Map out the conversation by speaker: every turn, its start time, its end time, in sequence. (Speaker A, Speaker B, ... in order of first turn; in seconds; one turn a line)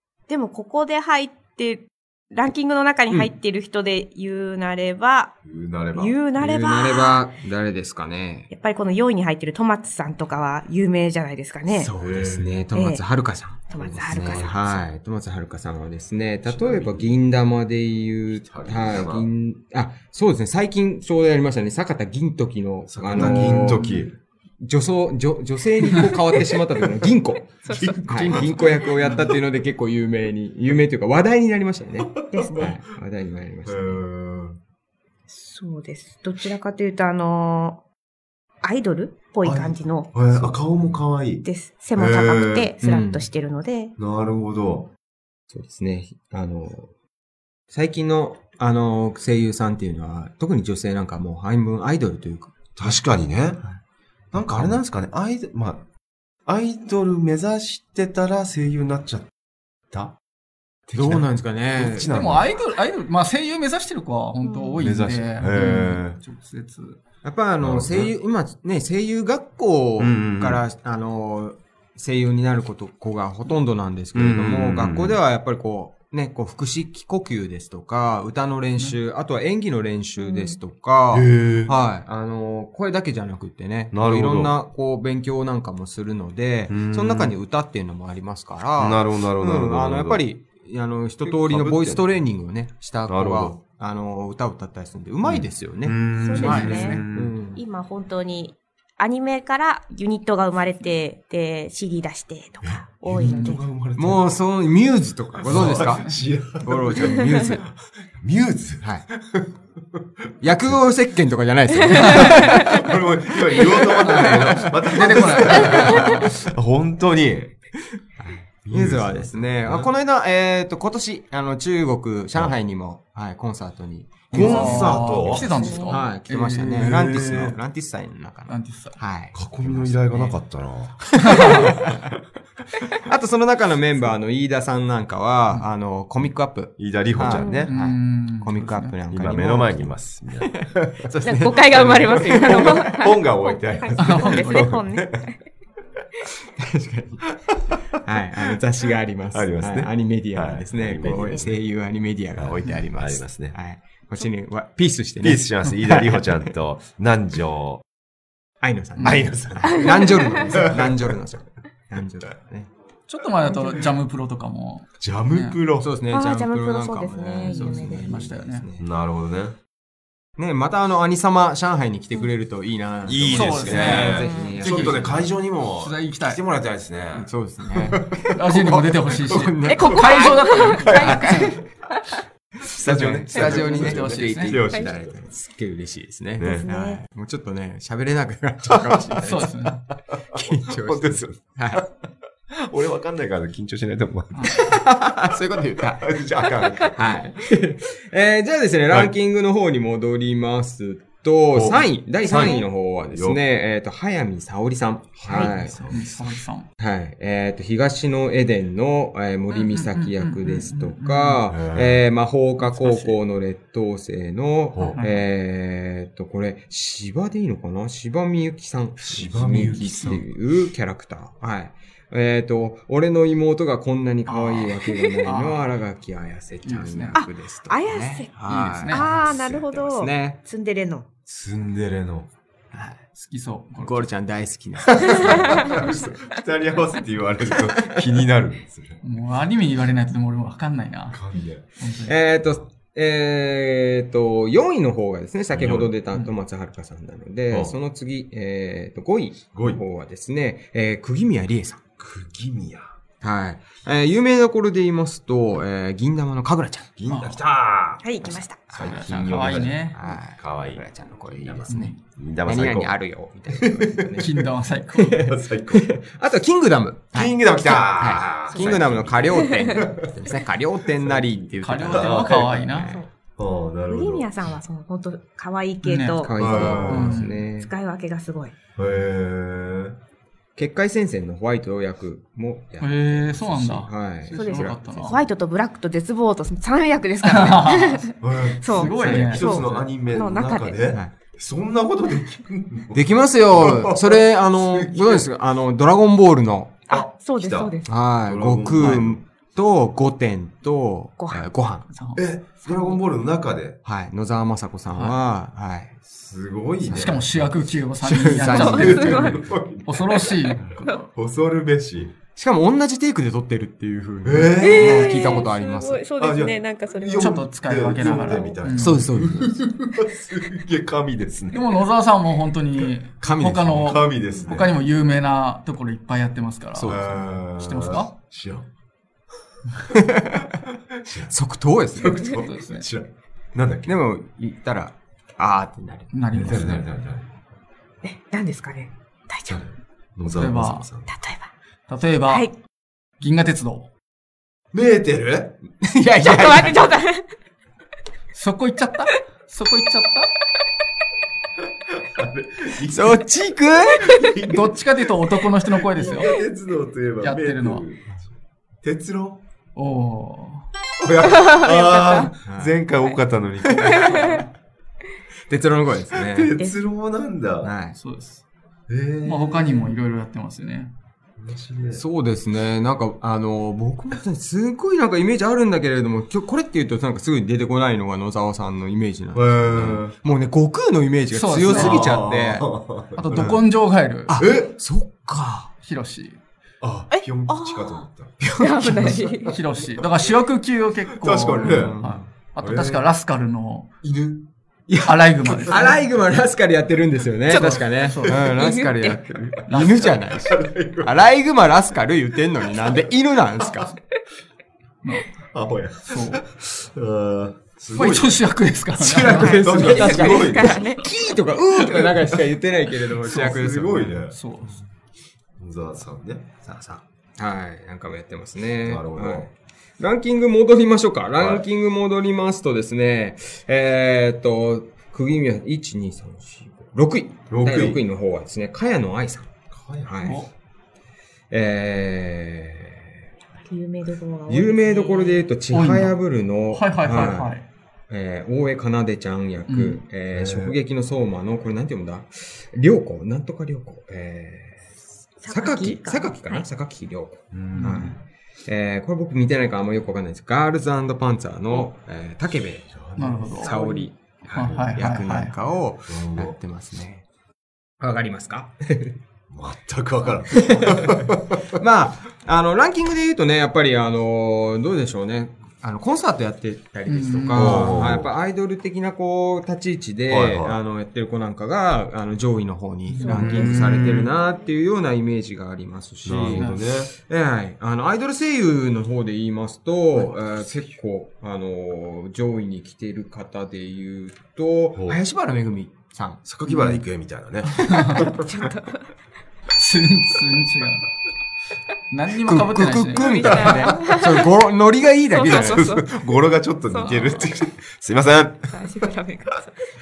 Speaker A: 0.3-5.3
Speaker B: 5.4-6.2
Speaker A: 5.9-7.3
Speaker C: 6.4-8.5
Speaker A: 8.5-11.9
Speaker B: 11.7-12.5
Speaker C: 12.0-24.0
Speaker A: 12.7-13.0
Speaker A: 13.7-14.8
Speaker B: 14.1-14.5
Speaker B: 16.4-17.1
Speaker B: 18.3-19.3
Speaker B: 22.9-24.1
Speaker D: 23.1-23.9
Speaker C: 24.6-27.6
Speaker A: 27.6-28.8
Speaker B: 27.7-28.6
Speaker C: 28.1-34.0
Speaker D: 29.0-29.2
Speaker B: 32.0-32.8
Speaker A: 32.3-32.8
Speaker B: 33.6-34.6
Speaker A: 35.3-37.8
Speaker A: 38.6-40.2
Speaker B: 39.4-42.7
Speaker C: 40.3-41.0
Speaker A: 41.4-43.9
Speaker C: 42.8-43.3
Speaker B: 44.0-44.9
Speaker C: 45.5-46.9
Speaker C: 47.7-52.5
Speaker B: 52.8-53.6
Speaker B: 54.3-55.8
Speaker C: 54.4-54.8
Speaker B: 56.5-59.3
Speaker B: 59.9-60.1
Speaker B: 60.9-62.6
Speaker C: 60.9-62.1
Speaker D: 62.1-67.0
Speaker A: 64.4-64.8
Speaker B: 64.8-66.2
Speaker C: 65.6-65.8
Speaker C: 67.2-96.0
Speaker B: 67.6-68.1
Speaker B: 70.0-70.6
Speaker B: 74.1-75.2
Speaker A: 80.2-80.6
Speaker B: 81.1-81.7
Speaker B: 83.9-84.6
Speaker B: 86.7-87.4
Speaker B: 88.8-90.3
Speaker B: 91.2-92.2
Speaker B: 93.0-93.6
Speaker B: 95.2-97.3
Speaker A: 96.2-97.0
Speaker D: 96.4-97.0
Speaker C: 97.1-97.6
Speaker A: 97.5-103.6
Speaker B: 102.6-104.3
Speaker D: 103.2-103.6
Speaker C: 104.0-106.0
Speaker B: 105.4-109.5
Speaker D: 105.5-106.2
Speaker C: 106.6-107.6
Speaker C: 110.4-112.8
Speaker B: 110.4-110.8
Speaker B: 112.0-117.5
Speaker C: 113.5-116.2
Speaker D: 114.1-116.3
Speaker C: 118.2-130.4
Speaker B: 118.6-119.9
Speaker B: 124.3-125.8
Speaker D: 124.3-127.0
Speaker A: 125.2-126.0
Speaker B: 126.8-127.6
Speaker D: 128.5-129.0
Speaker B: 129.3-131.6
Speaker C: 131.2-131.8
Speaker C: 132.9-140.0
Speaker B: 136.8-137.7
Speaker A: 137.2-137.7
Speaker D: 137.7-138.9
Speaker B: 139.1-140.9
Speaker C: 141.1-143.1
Speaker A: 141.2-145.4
Speaker B: 142.3-145.1
Speaker D: 144.0-144.7
Speaker C: 146.6-147.2
Speaker C: 148.0-156.4
Speaker B: 149.3-151.6
Speaker A: 151.0-151.4
Speaker B: 152.4-153.6
Speaker B: 155.2-157.8
Speaker C: 158.6-162.7
Speaker B: 159.0-160.9
Speaker D: 159.0-159.3
Speaker A: 159.9-160.3
Speaker D: 163.1-165.6
Speaker B: 165.0-165.9
Speaker C: 165.8-168.8
Speaker A: 166.1-168.3
Speaker D: 167.4-168.6
Speaker B: 168.8-169.6
Speaker C: 170.4-175.4
Speaker B: 173.0-178.0
Speaker D: 173.3-174.3
Speaker A: 174.0-174.8
Speaker D: 175.7-176.4
Speaker C: 177.1-180.3
Speaker D: 178.3-181.6
Speaker B: 179.3-181.4
Speaker A: 179.7-181.6
Speaker C: 180.9-181.6
Speaker B: 182.7-185.2
Speaker C: 182.7-189.5
Speaker D: 183.3-184.6
Speaker B: 186.4-186.7
Speaker A: 186.4-187.0
Speaker D: 189.2-189.8
Speaker C: 190.3-191.8
Speaker B: 190.8-191.9
Speaker B: 192.5-194.8
Speaker D: 194.3-194.6
Speaker C: 194.4-196.2
Speaker B: 195.8-197.2
Speaker C: 196.9-206.0
Speaker B: 201.5-203.4
Speaker A: 202.2-202.7
Speaker B: 205.2-206.4
Speaker D: 205.3-206.7
Speaker C: 206.8-230.4
Speaker D: 209.5-211.5
Speaker B: 211.5-212.0
Speaker D: 212.6-213.1
Speaker B: 214.7-215.0
Speaker D: 214.8-215.2
Speaker B: 219.0-220.3
Speaker D: 224.3-224.7
Speaker D: 225.2-225.7
Speaker D: 226.6-227.2
Speaker A: 227.1-231.1
Speaker D: 228.5-229.2
Speaker B: 231.3-232.3
Speaker C: 232.7-233.0
Speaker D: 233.1-234.1
Speaker C: 233.8-235.9
Speaker B: 234.9-239.0
Speaker A: 235.2-235.9
Speaker C: 237.8-238.2
Speaker D: 239.0-241.2
Speaker B: 241.1-241.7
Speaker D: 241.8-242.2
Speaker C: 242.0-251.8
Speaker B: 242.3-242.7
Speaker B: 245.5-245.9
Speaker B: 249.5-249.8
Speaker B: 252.0-252.8
Speaker C: 253.2-256.9
Speaker B: 257.0-264.4
Speaker D: 257.1-257.4
Speaker A: 258.0-258.6
Speaker C: 258.2-264.4
Speaker D: 258.7-260.0
Speaker D: 261.7-262.0
Speaker D: 264.2-265.2
Speaker C: 264.9-273.1
Speaker B: 265.1-265.9
Speaker B: 267.1-270.1
Speaker A: 268.5-269.9
Speaker B: 271.0-272.6
Speaker D: 271.6-272.9
Speaker A: 272.7-273.1
Speaker B: 273.4-274.5
Speaker A: 273.9-276.9
Speaker D: 275.8-277.4
Speaker C: 276.2-277.7
Speaker B: 276.4-277.3
Speaker A: 277.6-278.5
Speaker B: 278.8-280.0
Speaker C: 280.6-284.8
Speaker D: 282.8-285.2
Speaker A: 284.3-290.8
Speaker D: 287.2-288.1
Speaker B: 288.2-295.3
Speaker D: 288.7-289.5
Speaker C: 288.8-289.8
Speaker C: 292.9-296.8
Speaker A: 296.9-297.9
Speaker B: 296.9-299.2
Speaker C: 297.8-301.9
Speaker A: 301.2-301.6
Speaker D: 301.9-302.2
Speaker B: 302.1-303.8
Speaker A: 302.6-303.0
Speaker C: 303.8-305.9
Speaker D: 304.9-305.2
Speaker B: 306.1-307.7
Speaker C: 306.9-307.2
Speaker D: 306.9-310.6
Speaker C: 308.0-309.3
Speaker A: 308.5-309.4
Speaker B: 308.6-312.1
Speaker A: 310.8-311.1
Speaker C: 312.4-316.1
Speaker B: 314.2-315.5
Speaker A: 314.6-317.3
Speaker B: 316.2-321.9
Speaker D: 317.1-319.1
Speaker A: 318.0-318.6
Speaker C: 318.8-319.6
Speaker D: 321.5-328.1
Speaker C: 323.2-323.9
Speaker B: 323.7-324.7
Speaker C: 326.7-327.0
Speaker B: 326.9-328.6
Speaker C: 330.0-330.4
Speaker B: 331.0-331.3
Speaker C: 331.3-332.2
Speaker B: 331.9-333.9
Speaker D: 332.2-332.9
Speaker C: 333.9-336.1
Speaker D: 336.1-336.9
Speaker B: 336.3-337.3
Speaker A: 338.0-339.6
Speaker B: 339.5-341.1
Speaker D: 340.3-340.9
Speaker A: 341.1-341.5
Speaker D: 341.9-342.5
Speaker D: 343.2-343.9
Speaker B: 344.7-345.6
Speaker C: 345.9-346.8
Speaker A: 346.2-347.3
Speaker D: 348.3-350.3
Speaker B: 352.1-353.3
Speaker C: 352.9-354.3
Speaker B: 353.9-354.8
Speaker D: 354.4-356.3
Speaker B: 355.9-358.2
Speaker D: 357.2-357.8
Speaker B: 358.8-359.4
Speaker D: 359.7-360.7
Speaker B: 361.0-364.4
Speaker A: 361.2-362.3
Speaker C: 362.5-362.7
Speaker C: 363.6-364.3
Speaker D: 363.9-364.5
Speaker C: 365.5-366.5
Speaker B: 366.2-367.7
Speaker C: 367.6-368.0
Speaker D: 368.0-368.4
Speaker B: 368.9-369.9
Speaker D: 369.2-370.9
Speaker B: 371.4-372.0
Speaker C: 371.9-382.7
Speaker B: 379.3-380.1
Speaker D: 381.3-382.1
Speaker B: 381.7-383.7
Speaker D: 383.2-384.4
Speaker C: 384.3-385.7
Speaker B: 384.4-384.8
Speaker D: 385.8-386.4
Speaker B: 386.8-389.2
Speaker A: 387.1-389.6
Speaker C: 388.4-389.2
Speaker D: 389.4-393.9
Speaker B: 391.1-392.0
Speaker C: 391.7-392.3
Speaker B: 392.6-393.1
Speaker B: 394.0-394.5
Speaker C: 394.9-403.9
Speaker D: 395.0-396.0
Speaker B: 395.4-396.0
Speaker A: 397.5-397.9
Speaker D: 397.9-398.4
Speaker B: 398.2-398.5
Speaker A: 398.4-399.2
Speaker D: 399.7-400.2
Speaker B: 399.8-401.3
Speaker B: 405.5-408.5
Speaker D: 406.1-406.4
Speaker D: 407.9-410.5
Speaker C: 408.9-414.1
Speaker B: 409.2-410.8
Speaker A: 409.8-411.0
Speaker D: 413.2-414.8
Speaker B: 413.3-414.4
Speaker B: 415.6-416.4
Speaker C: 416.6-429.5
Speaker B: 418.8-419.5
Speaker B: 421.4-421.7
Speaker B: 427.5-428.0
Speaker B: 429.7-430.3
Speaker C: 430.0-430.4
Speaker D: 430.2-430.5
Speaker C: 431.5-433.0
Speaker A: 433.6-435.5
Speaker C: 434.5-437.5
Speaker D: 435.7-437.7
Speaker C: 438.1-444.8
Speaker D: 439.7-440.0
Speaker B: 440.3-440.8
Speaker A: 445.4-446.6
Speaker C: 445.5-452.9
Speaker B: 447.5-448.1
Speaker D: 447.7-448.1
Speaker B: 452.6-455.0
Speaker D: 453.2-455.6
Speaker C: 453.6-457.2
Speaker B: 456.1-456.6
Speaker C: 458.0-459.1
Speaker B: 459.5-461.6
Speaker C: 460.5-486.4
Speaker D: 467.1-468.0
Speaker B: 467.5-468.3
Speaker B: 470.3-470.8
Speaker D: 473.1-473.6
Speaker A: 473.1-474.2
Speaker B: 473.2-474.3
Speaker B: 476.2-477.1
Speaker D: 476.5-476.8
Speaker B: 480.3-480.6
Speaker B: 484.9-485.2
Speaker B: 486.4-488.5
Speaker D: 486.7-487.0
Speaker D: 487.8-488.4
Speaker A: 488.2-489.1
Speaker D: 489.7-491.1
Speaker D: 492.1-493.9
Speaker C: 492.4-495.9
Speaker A: 493.1-494.4
Speaker A: 495.3-496.1
Speaker B: 495.5-498.8
Speaker A: 496.9-497.5
Speaker D: 497.0-497.4
Speaker A: 498.7-499.8